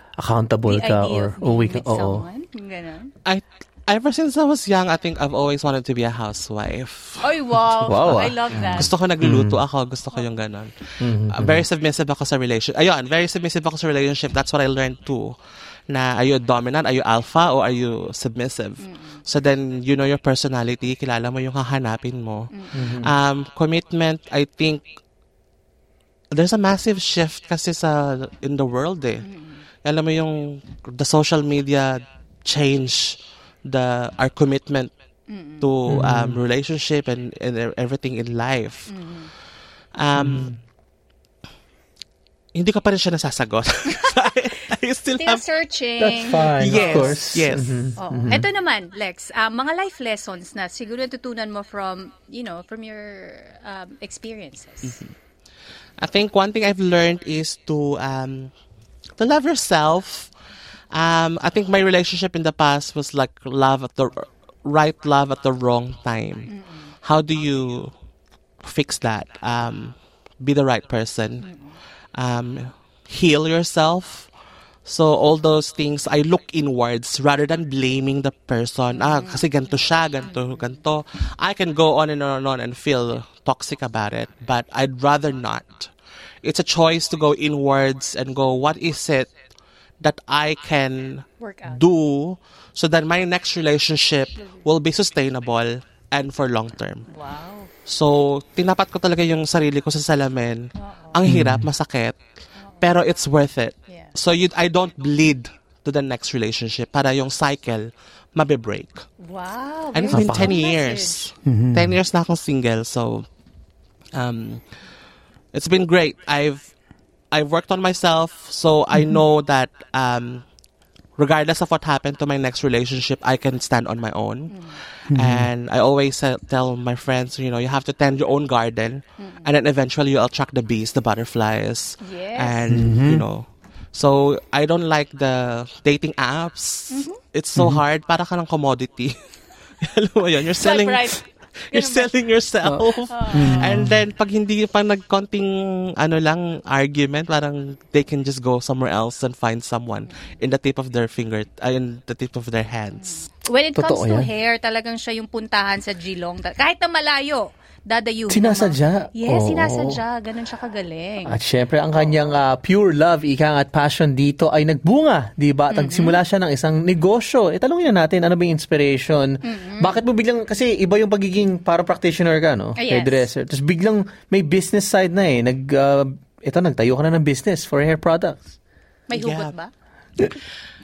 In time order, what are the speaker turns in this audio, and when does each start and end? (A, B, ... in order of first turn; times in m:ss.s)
0:00.2-0:02.3 A
0:00.7-0:03.1 B
0:03.3-0:07.4 C
0:07.2-0:08.9 B
0:07.8-0:09.6 A
0:08.5-0:15.4 C
0:11.0-0:11.7 A
0:15.9-0:24.9 C
0:18.8-0:19.2 B
0:22.5-0:22.9 B
0:22.7-0:23.1 A
0:26.3-0:29.3 C
0:29.2-0:29.7 B
0:29.8-0:34.9 C
0:35.3-0:35.7 B
0:35.6-0:38.9 C
0:35.9-0:36.4 A
0:38.9-0:39.3 B
0:40.0-0:40.5 C
0:40.2-0:40.6 A
0:42.6-0:45.4 C
0:45.2-0:47.2 B
0:46.0-0:48.5 A
0:46.6-0:48.0 C
0:48.0-0:55.0 B
0:56.0-0:58.5 C
0:59.2-1:00.3 C
1:00.9-1:08.0 C
1:06.5-1:07.0 B
1:08.6-1:11.5 C
1:11.4-1:11.8 B
1:12.2-1:14.3 C
1:14.9-1:29.3 C
1:18.9-1:20.7 B
1:30.0-1:37.1 C
1:31.4-1:31.8 B
1:37.1-1:37.7 B
1:37.9-1:42.2 C
1:40.8-1:41.2 B
1:41.3-1:41.7 A
1:42.6-1:42.9 B
1:42.8-1:49.1 C
1:49.2-1:51.3 B
1:49.9-1:53.3 C
1:50.1-1:50.6 A
1:51.4-1:52.0 A
1:54.1-1:54.6 C
1:55.5-1:56.7 C
1:57.3-2:00.4 C
1:58.9-1:59.2 A
2:01.2-2:19.2 C
2:04.5-2:04.8 B
2:05.1-2:05.5 A
2:09.2-2:09.5 B
2:12.0-2:12.8 B
2:12.7-2:13.3 A
2:16.9-2:17.2 B
2:17.6-2:17.8 A
2:19.8-2:33.3 C
2:20.6-2:22.1 B
2:22.6-2:24.0 A
2:23.1-2:23.8 B
2:33.0-2:41.4 B
2:33.8-2:34.3 A
2:38.3-2:40.0 A
2:41.3-2:58.6 A
2:45.7-2:46.2 B
2:49.4-2:50.0 B
2:52.8-2:53.3 B
2:59.1-2:59.7 B
2:59.1-2:59.5 C